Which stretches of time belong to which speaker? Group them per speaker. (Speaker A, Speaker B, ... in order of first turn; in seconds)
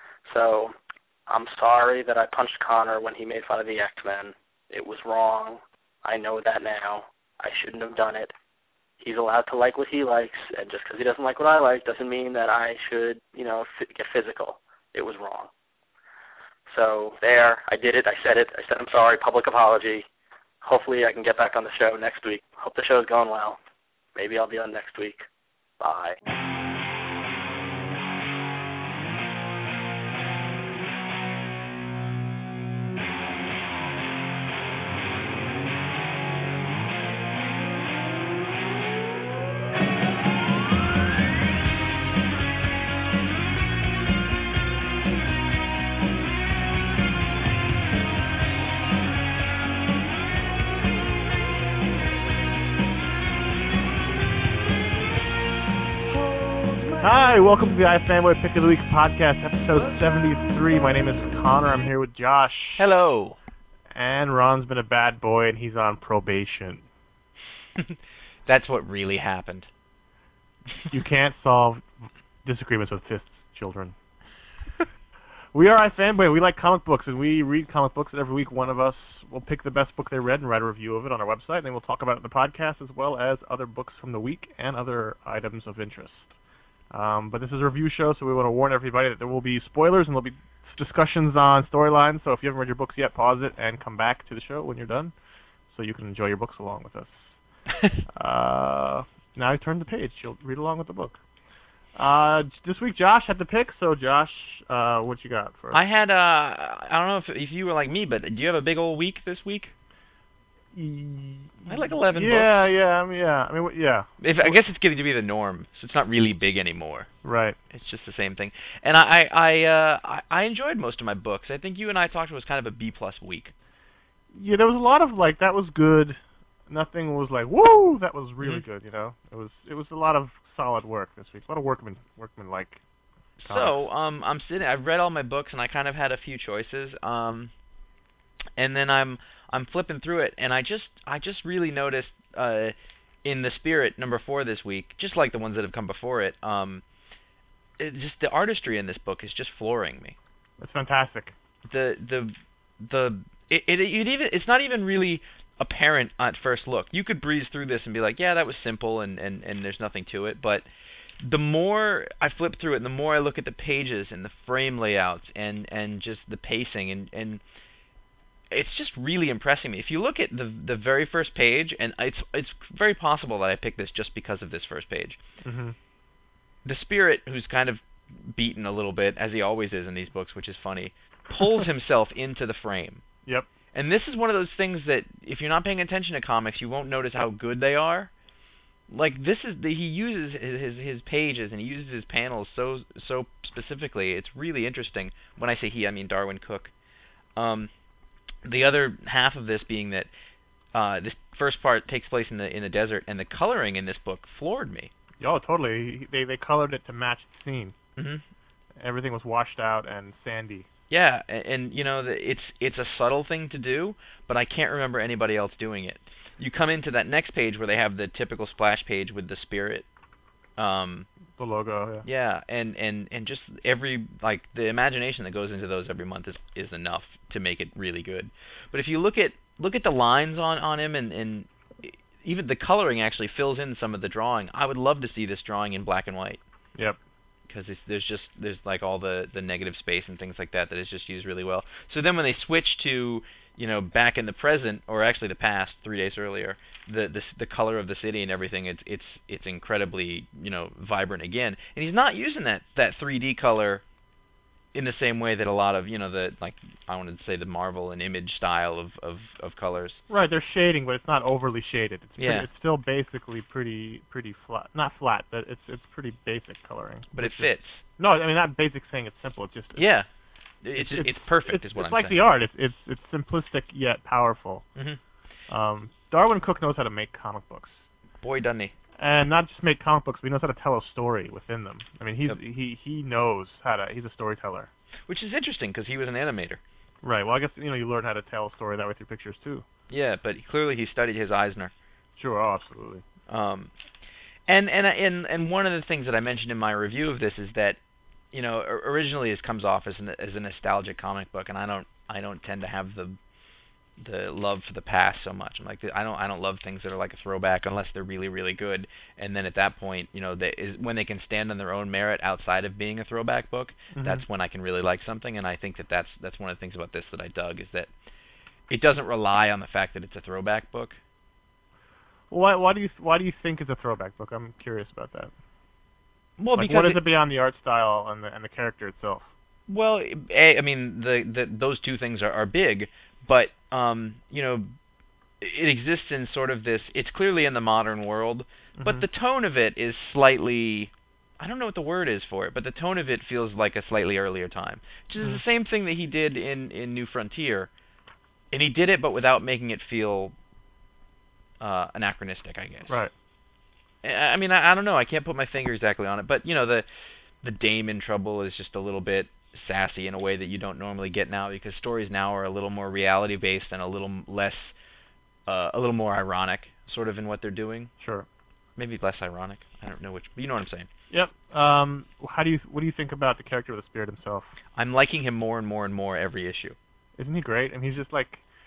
Speaker A: 0.3-0.7, 1.3-8.3, 9.0-15.5, 16.7-20.1, 20.6-23.6, 24.1-25.2, 25.8-26.2
Speaker B: 56.5-57.0, 62.8-63.4, 67.8-69.7, 97.7-98.0, 105.7-109.7, 111.7-112.5, 114.2-117.1, 117.7-123.5, 133.4-137.5, 138.6-146.8, 147.8-150.2, 151.7-160.7, 161.2-167.4, 168.5-175.2, 176.7-183.0, 183.7-188.1, 188.9-196.7, 197.4-197.7, 198.4-200.1, 200.7-204.9, 208.0-208.2, 210.9-219.9, 220.6-221.1, 222.1-236.4, 237.5-253.8, 254.7-260.0, 262.2-262.5, 267.1-267.8, 269.8-270.1, 270.6-272.3, 278.2-278.7, 285.1-286.6, 289.9-291.7, 293.3-293.7, 294.5-297.8, 298.3-303.2, 304.0-317.9, 318.7-321.0, 326.4-327.0, 329.7-334.7, 335.4-347.7, 348.5-350.3, 351.6-352.9, 354.0-356.9, 357.4-364.7, 365.5-367.9, 368.8-370.9, 374.8-376.8
Speaker C: 57.0-62.8, 63.9-66.8, 70.9-71.9, 72.4-74.0, 75.5-86.3, 86.9-95.1, 95.7-97.3, 98.1-101.2, 102.0-105.8, 110.7-114.6, 117.2-117.6, 124.3-132.8, 133.4-133.8, 150.6-151.3, 175.4-175.8, 205.2-207.8, 208.8-210.7, 221.4-222.1, 260.1-269.9, 270.8-274.6, 275.5-277.9, 279.0-284.7, 287.0-289.6, 292.2-293.0, 313.9-314.2, 322.3-325.3, 326.6-329.3, 338.8-339.1, 368.0-368.3, 371.1-374.5, 377.2-378.4